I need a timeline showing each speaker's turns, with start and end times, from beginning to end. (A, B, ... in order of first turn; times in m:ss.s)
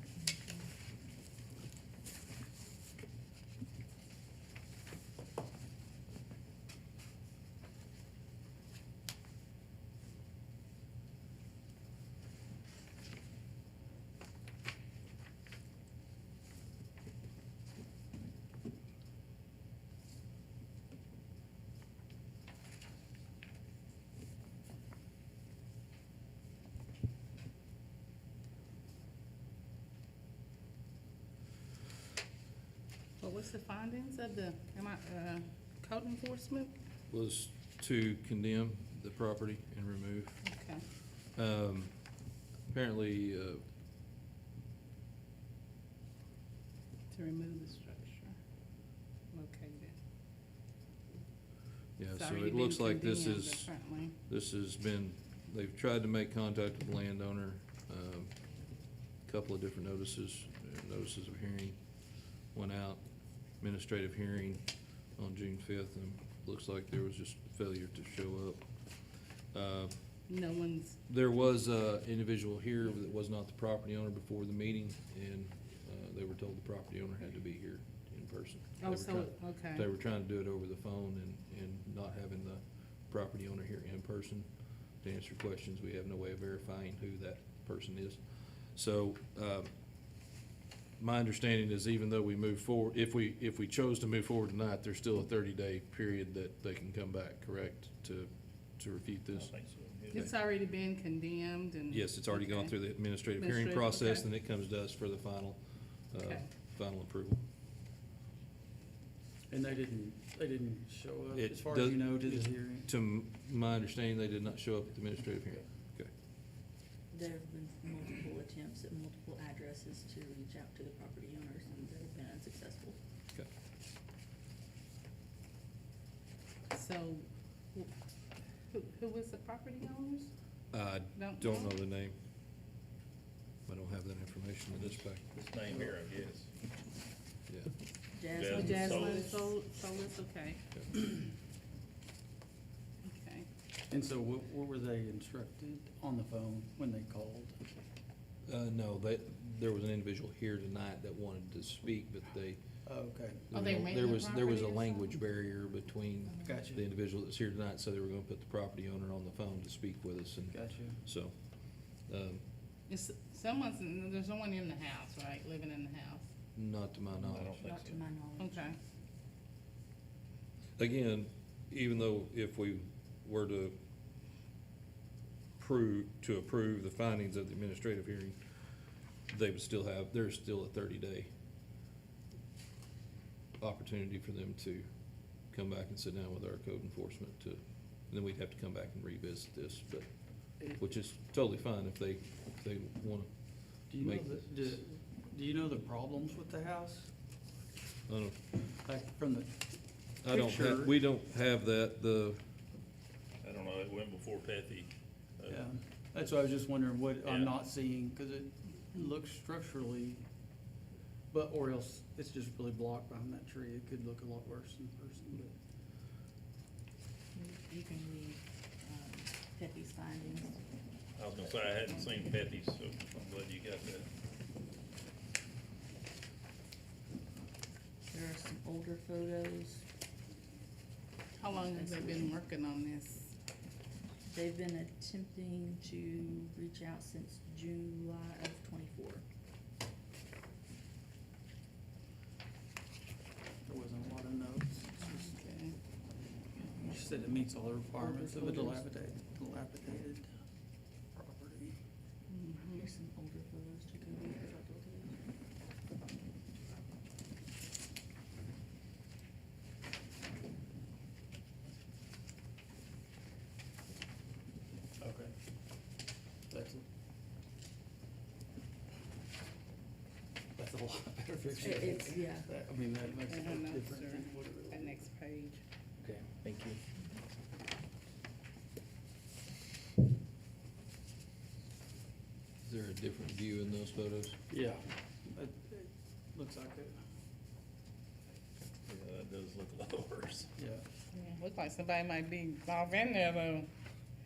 0:00.3-0:00.6 A
0:33.2-0:36.7 B
0:37.1-0:40.4 C
0:40.4-0:40.8 B
0:41.1-0:43.6 C
0:47.1-0:48.4 B
0:49.3-0:50.0 B
0:52.0-0:58.4 C
0:52.1-0:54.2 B
0:59.2-1:01.9 C
1:02.4-1:10.2 C
1:10.3-1:11.0 B
1:11.1-1:29.7 C
1:18.8-1:19.9 B
1:31.0-1:39.5 C
1:39.4-1:40.3 D
1:40.1-1:44.3 B
1:41.9-1:47.4 C
1:46.2-1:46.5 B
1:49.5-1:52.9 E
1:51.4-1:56.1 C
1:57.1-2:03.0 A
2:06.7-2:07.9 B
2:08.7-2:10.3 B
2:10.7-2:12.2 C
2:11.2-2:11.8 B
2:13.7-2:15.3 C
2:14.7-2:16.5 D
2:17.5-2:17.7 C
2:18.2-2:19.5 A
2:18.3-2:19.4 D
2:18.5-2:20.6 B
2:23.0-2:23.5 B
2:23.9-2:27.7 E
2:28.5-2:32.8 C
2:32.8-2:33.5 E
2:33.5-2:42.4 C
2:33.5-2:35.2 B
2:36.4-2:36.8 E
2:40.5-2:41.0 E
2:42.9-2:46.3 B
2:46.6-2:47.6 C
2:47.2-2:48.0 D
2:47.6-2:48.8 A
2:48.4-2:48.8 B
2:50.8-2:53.8 C
2:55.6-2:58.4 C
2:59.3-3:01.3 C
3:03.6-3:04.9 C
3:05.4-3:14.8 C
3:13.9-3:17.1 E
3:18.1-3:18.4 C
3:18.8-3:19.7 E
3:20.2-3:22.4 C
3:20.2-3:20.9 E
3:23.4-3:25.7 D
3:25.5-3:30.3 E
3:27.2-3:27.6 D
3:31.3-3:35.6 E
3:37.3-3:40.6 A
3:41.2-3:44.1 D
3:48.1-3:49.8 A
3:51.4-3:53.3 B
3:51.5-3:52.3 A
3:54.3-3:59.2 A
4:03.7-4:05.4 E
4:05.3-4:05.8 B
4:06.8-4:10.3 E
4:08.0-4:08.8 B
4:11.1-4:11.8 E
4:12.3-4:12.9 B
4:12.7-4:15.2 A
4:25.0-4:25.4 E
4:26.5-4:26.9 E
4:30.6-4:35.0 E
4:31.5-4:32.5 A
4:33.2-4:35.6 B
4:42.6-4:44.4 C
4:44.5-4:47.0 E
4:48.9-4:50.5 D
4:50.6-4:50.8 E
4:51.1-4:53.7 B